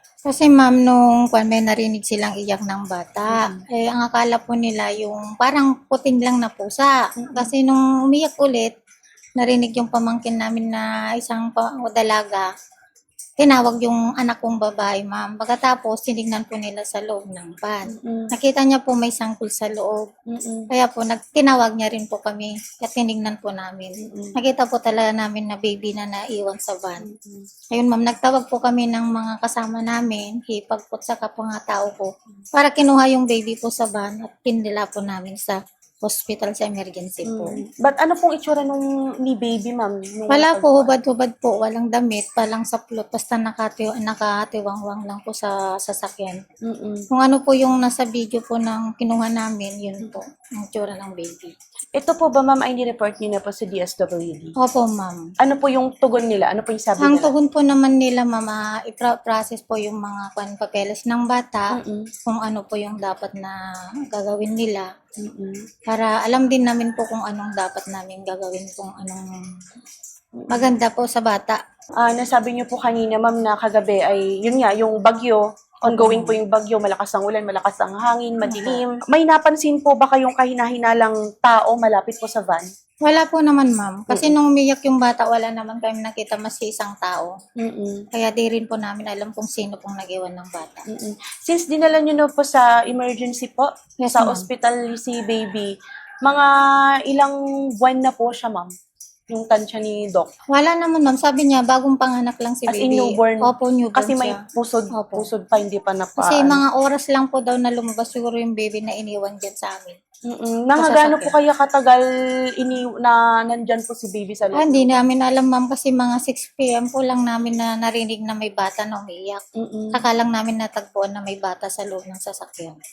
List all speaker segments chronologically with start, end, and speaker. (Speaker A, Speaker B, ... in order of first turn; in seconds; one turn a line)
Speaker A: 0.2-8.7
Speaker B: 3.3-3.6
Speaker B: 7.2-7.5
Speaker A: 9.4-12.5
Speaker A: 13.4-20.0
Speaker B: 17.9-18.3
Speaker B: 20.3-20.7
Speaker A: 20.7-27.0
Speaker B: 24.0-24.3
Speaker B: 27.0-27.5
Speaker A: 27.7-37.6
Speaker B: 37.3-40.9
Speaker A: 40.3-46.4
Speaker B: 46.6-47.0
Speaker A: 47.1-51.5
Speaker B: 52.0-54.5
Speaker A: 54.6-55.2
Speaker B: 55.4-57.3
Speaker A: 57.0-61.8
Speaker B: 61.7-62.1
Speaker A: 62.3-63.6
Speaker A: 64.1-64.9
Speaker B: 65.2-65.6
Speaker A: 65.9-69.2
Speaker B: 70.4-70.7
Speaker A: 70.5-71.6
Speaker B: 72.0-82.7
Speaker A: 75.8-76.4
Speaker A: 78.5-78.8
Speaker A: 83.0-87.3
Speaker B: 87.6-88.0
Speaker A: 88.1-90.8
Speaker B: 90.9-95.7
Speaker A: 94.0-94.5
Speaker B: 96.2-96.5
Speaker B: 97.0-98.7
Speaker B: 99.3-100.3
Speaker A: 100.5-104.4
Speaker B: 102.7-106.6
Speaker A: 104.9-105.3
Speaker A: 106.2-110.0
Speaker B: 110.3-112.0
Speaker A: 110.8-111.3
Speaker B: 112.6-115.0
Speaker A: 114.5-119.4
Speaker B: 119.6-120.0
Speaker A: 119.9-122.8